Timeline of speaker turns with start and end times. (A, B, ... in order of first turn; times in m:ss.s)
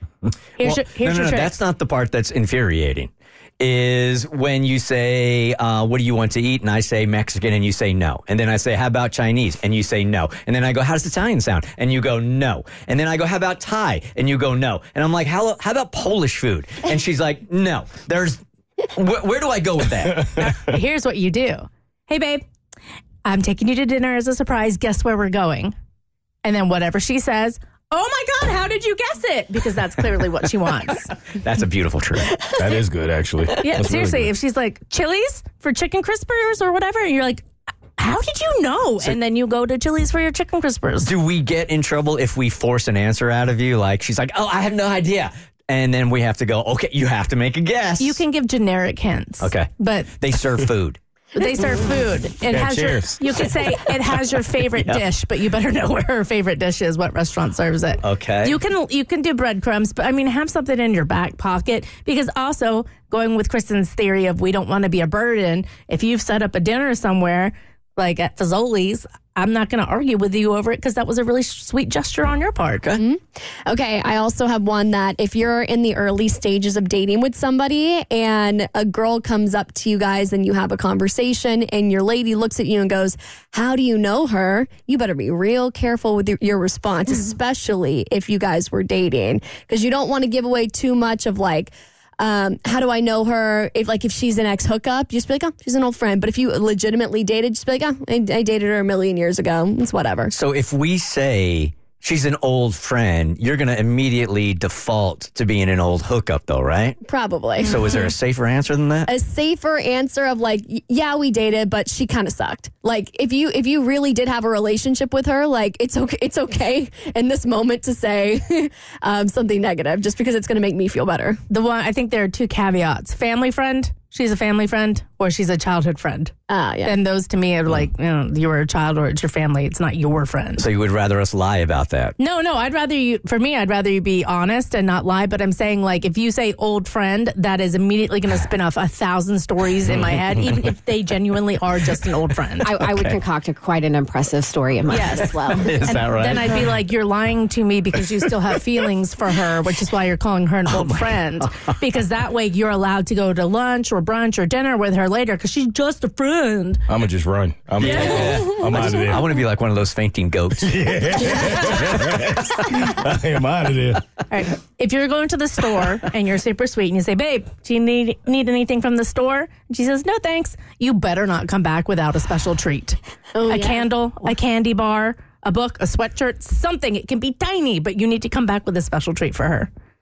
0:00.3-0:20.3 A
0:00.6-0:01.5 B
0:20.4-0:22.4 B
0:23.2-0:25.8 B
0:26.4-0:31.1 B
0:31.4-0:32.3 A
0:32.5-0:34.3 C
0:33.6-0:37.5 B
0:38.0-0:41.1 B
0:41.0-0:48.2 A
0:48.0-0:50.1 B
0:49.4-0:51.0 A
0:51.4-1:13.0 B
0:52.5-0:53.4 C
0:54.8-0:55.0 A
0:58.0-0:58.6 A
1:13.0-1:40.3 D
1:40.3-1:47.0 A
1:47.0-1:47.8 D
1:47.6-1:49.1 A
1:49.1-2:01.4 D
2:01.5-2:06.3 B
2:06.5-2:07.0 D
2:06.8-2:10.6 B
2:10.6-2:12.2 A
2:12.2-2:22.7 B
2:19.9-2:20.6 A
2:22.6-2:25.9 E
2:24.9-2:36.8 B
2:25.4-2:26.7 A
2:30.7-2:31.8 A
2:36.9-2:39.2 C
2:37.8-2:40.8 A
2:37.8-2:38.4 B
2:40.6-2:44.1 C
2:44.3-2:59.7 B
2:53.4-2:53.8 D